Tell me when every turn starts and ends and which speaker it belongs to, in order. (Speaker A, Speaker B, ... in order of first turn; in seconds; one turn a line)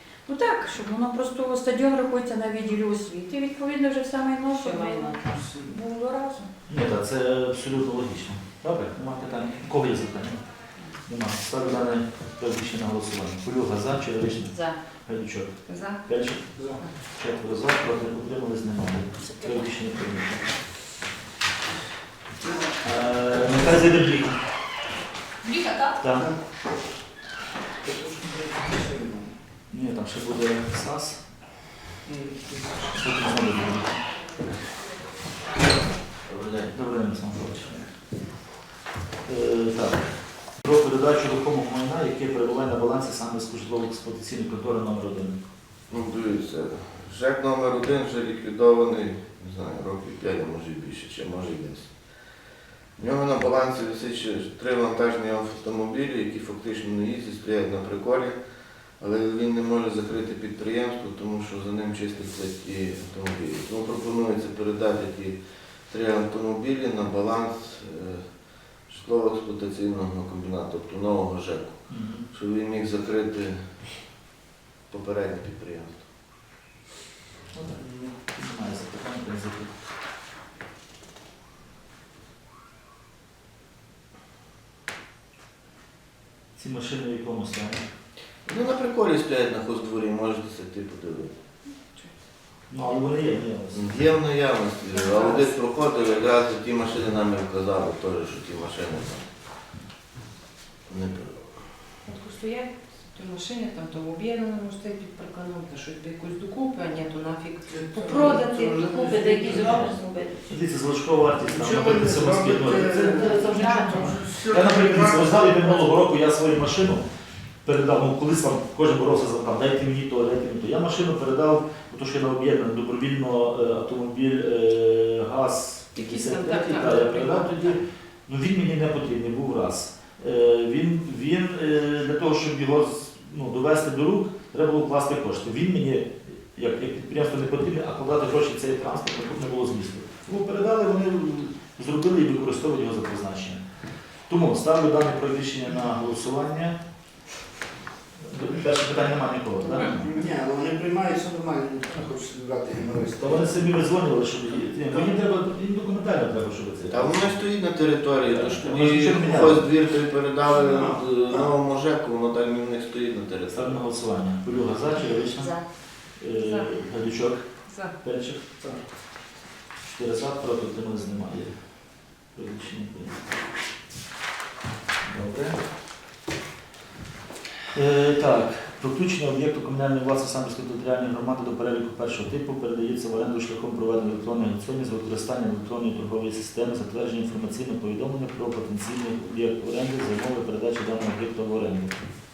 Speaker A: 0.3-6.5
Speaker B: 4.6-5.4
Speaker C: 5.3-5.7
Speaker D: 6.7-10.4
Speaker D: 11.1-16.5
Speaker B: 14.5-14.8
Speaker E: 15.7-16.0
Speaker C: 16.6-16.8
Speaker D: 17.1-20.5
Speaker D: 22.8-24.4
Speaker D: 26.0-26.3
Speaker C: 27.8-29.3
Speaker D: 29.7-31.2
Speaker C: 32.0-33.0
Speaker D: 32.9-34.0
Speaker D: 36.4-37.8
Speaker D: 39.2-45.4
Speaker F: 45.9-51.9
Speaker F: 53.0-58.4
Speaker F: 59.0-65.4
Speaker F: 65.9-68.3
Speaker F: 68.9-73.6
Speaker D: 71.9-72.2
Speaker F: 74.9-76.0
Speaker D: 77.5-79.7
Speaker C: 77.8-78.2
Speaker D: 86.6-87.8
Speaker F: 88.5-91.3
Speaker D: 92.7-93.8
Speaker F: 93.7-99.3
Speaker E: 94.9-95.4
Speaker F: 100.9-101.4
Speaker E: 102.0-108.2
Speaker C: 107.7-109.9
Speaker B: 108.0-110.5
Speaker D: 110.5-117.0
Speaker C: 111.4-116.0
Speaker B: 113.4-114.1
Speaker D: 117.6-143.6
Speaker E: 125.9-127.8
Speaker D: 144.3-146.8
Speaker D: 148.2-150.1
Speaker C: 150.0-153.6
Speaker D: 153.2-157.4
Speaker C: 154.9-155.2
Speaker F: 156.9-163.8
Speaker D: 158.2-159.7
Speaker C: 160.5-161.5
Speaker D: 163.5-168.4
Speaker B: 165.4-165.6
Speaker E: 166.4-166.7
Speaker E: 167.7-167.9
Speaker D: 169.8-173.2
Speaker D: 175.0-175.6
Speaker D: 177.7-191.9